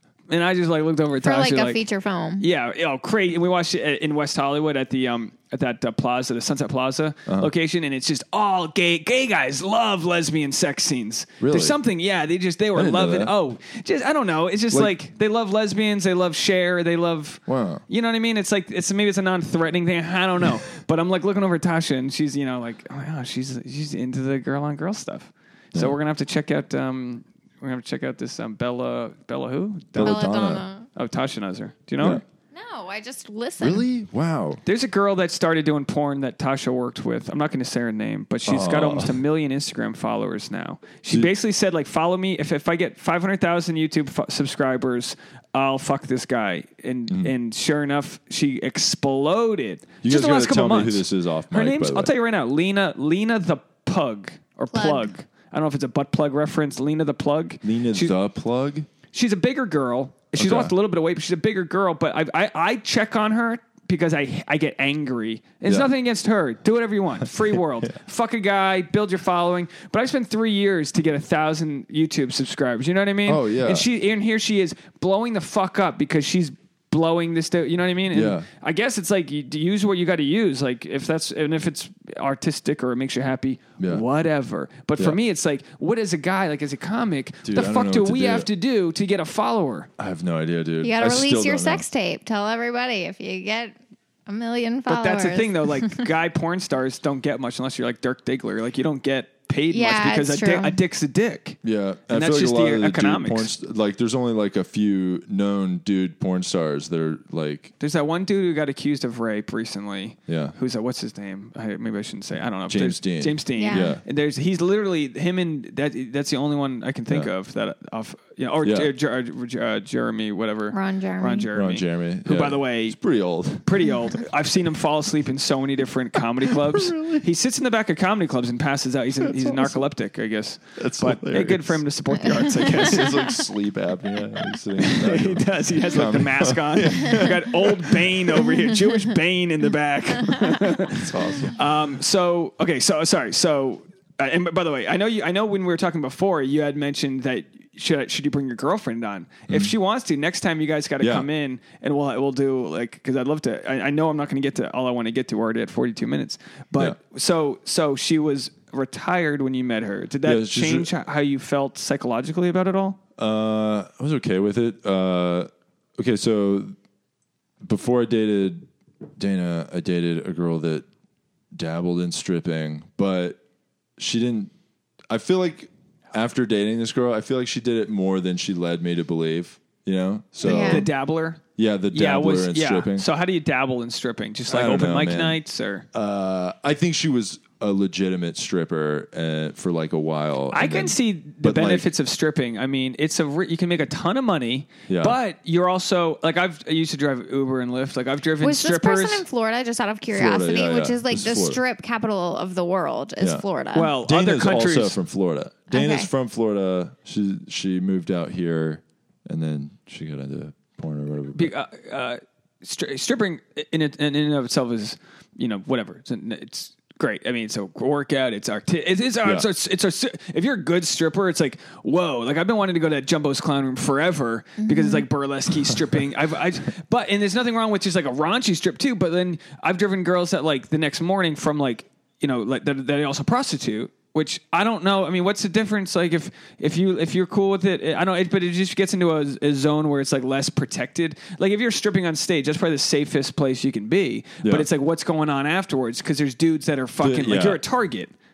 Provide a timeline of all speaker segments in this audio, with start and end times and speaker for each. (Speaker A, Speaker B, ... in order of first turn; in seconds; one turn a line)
Speaker A: 0.3-1.8
Speaker B: 1.2-2.4
Speaker A: 2.4-30.3
Speaker C: 7.2-7.5
Speaker C: 11.4-11.8
Speaker C: 12.7-13.3
Speaker C: 17.5-17.8
Speaker C: 29.9-30.6
Speaker B: 30.0-30.9
Speaker A: 30.9-32.2
Speaker B: 32.5-33.9
Speaker C: 33.6-34.6
Speaker A: 34.6-58.1
Speaker C: 38.5-39.2
Speaker C: 47.1-47.3
Speaker C: 50.0-52.1
Speaker B: 54.7-55.1
Speaker C: 57.6-58.9
Speaker A: 59.1-89.9
Speaker C: 60.3-60.7
Speaker C: 65.6-65.9
Speaker C: 67.2-67.9
Speaker C: 73.2-73.9
Speaker C: 78.1-78.5
Speaker C: 83.8-84.0
Speaker C: 87.4-88.5
Speaker C: 90.0-91.8
Speaker B: 90.8-93.8
Speaker B: 94.3-96.1
Speaker A: 94.9-101.6
Speaker B: 99.7-100.8
Speaker C: 101.6-107.7
Speaker A: 102.1-103.5
Speaker A: 107.8-123.0
Speaker C: 110.3-110.5
Speaker C: 112.7-114.0
Speaker B: 113.6-113.9
Speaker C: 118.6-118.9
Speaker B: 120.7-121.5
Speaker C: 121.5-124.2
Speaker A: 123.6-133.4
Speaker C: 126.4-127.2
Speaker C: 129.2-129.8
Speaker C: 130.8-131.8
Speaker C: 132.4-138.5
Speaker A: 134.8-163.0
Speaker C: 140.8-141.6
Speaker C: 149.5-149.7
Speaker C: 151.0-151.3
Speaker C: 160.2-160.9
Speaker C: 163.2-166.8
Speaker C: 167.6-170.9
Speaker C: 171.5-173.4
Speaker C: 174.0-174.5
Speaker C: 175.1-180.9
Speaker A: 180.4-185.9
Speaker B: 180.4-180.9
Speaker C: 181.6-183.1
Speaker C: 184.5-185.4
Speaker C: 185.9-191.9
Speaker A: 190.5-199.2
Speaker C: 194.9-195.2
Speaker B: 198.4-203.9
Speaker C: 200.1-201.6
Speaker A: 203.7-205.0
Speaker C: 204.0-211.5
Speaker B: 205.7-206.1
Speaker A: 211.3-248.1
Speaker C: 219.2-219.5
Speaker B: 224.6-225.0
Speaker C: 244.4-244.7
Speaker C: 247.0-247.6